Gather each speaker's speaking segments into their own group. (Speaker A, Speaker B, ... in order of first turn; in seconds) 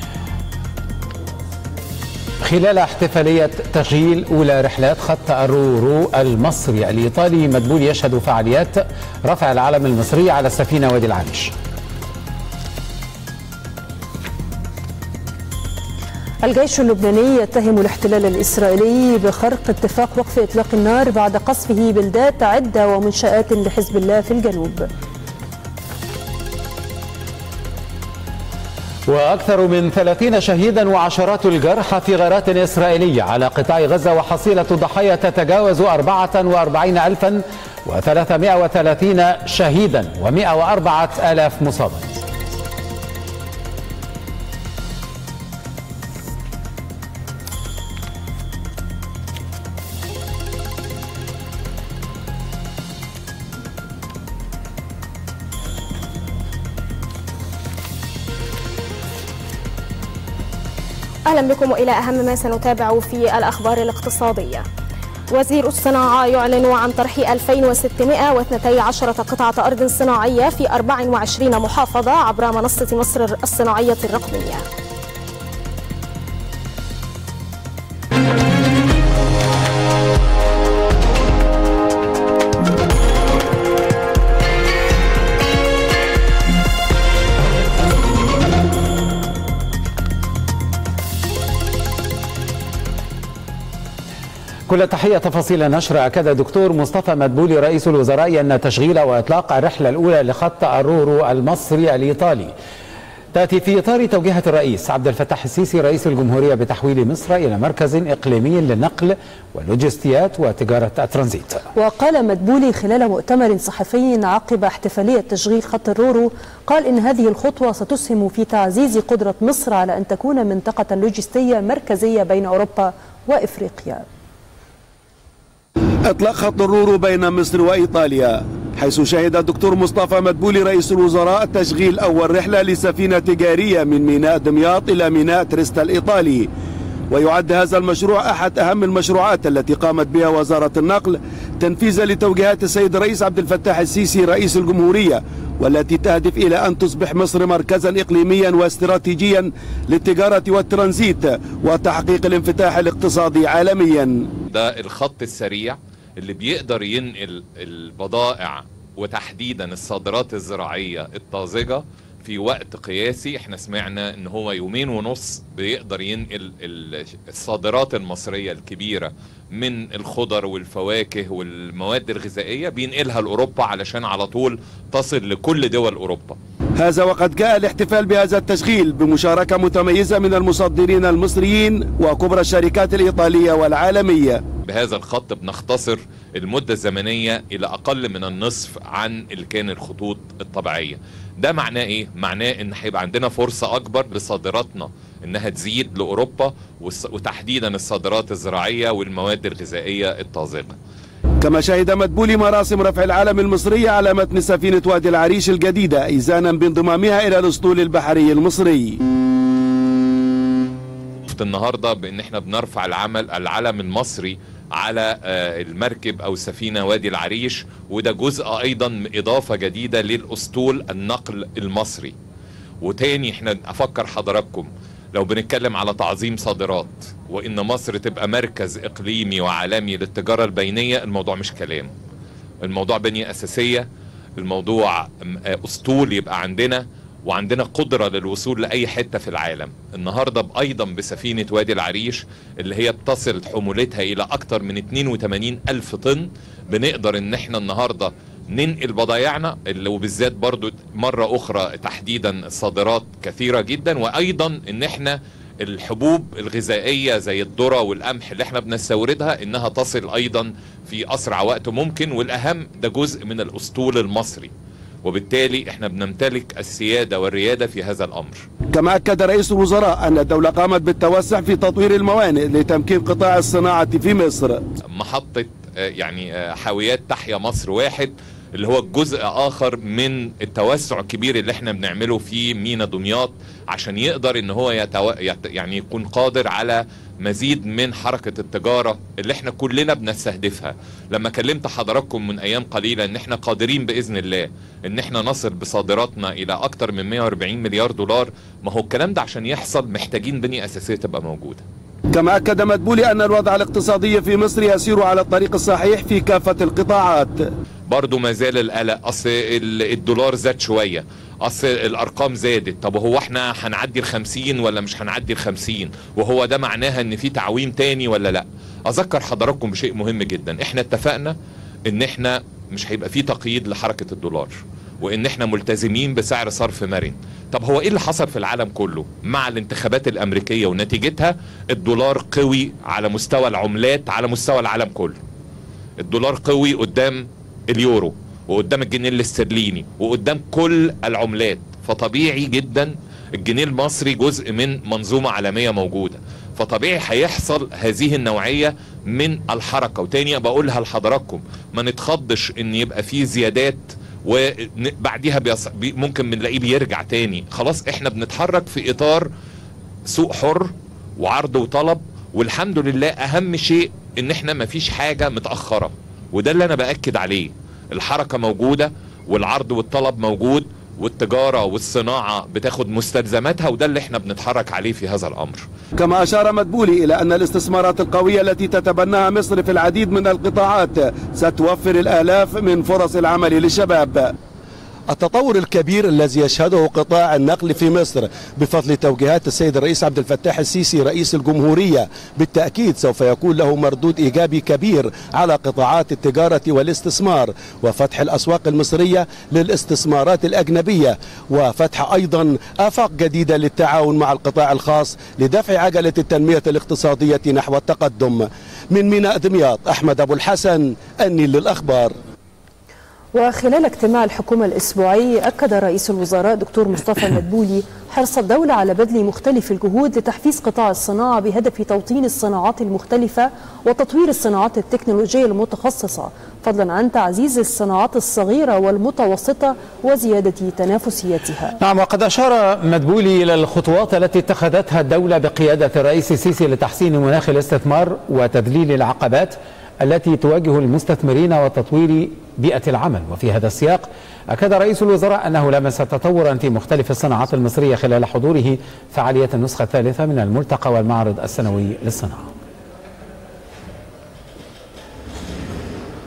Speaker A: 2.4-11.5, 29.1-42.2, 94.7-102.5, 103.3-111.7, 431.8-452.5
Speaker B: 16.4-24.9, 111.8-124.0, 413.4-431.8
Speaker C: 61.3-64.7, 65.3-74.6
Speaker D: 126.1-136.5, 137.1-154.3, 176.8-184.4, 201.4-209.0, 268.7-274.6, 302.1-307.4, 376.0-384.4, 385.1-412.1
Speaker E: 154.5-176.4, 184.7-200.8, 211.3-222.1, 222.8-231.9, 232.6-233.9, 234.4-264.5, 265.0-268.4, 274.9-301.6, 307.9-321.4, 321.9-335.2, 336.0-359.3, 360.1-375.7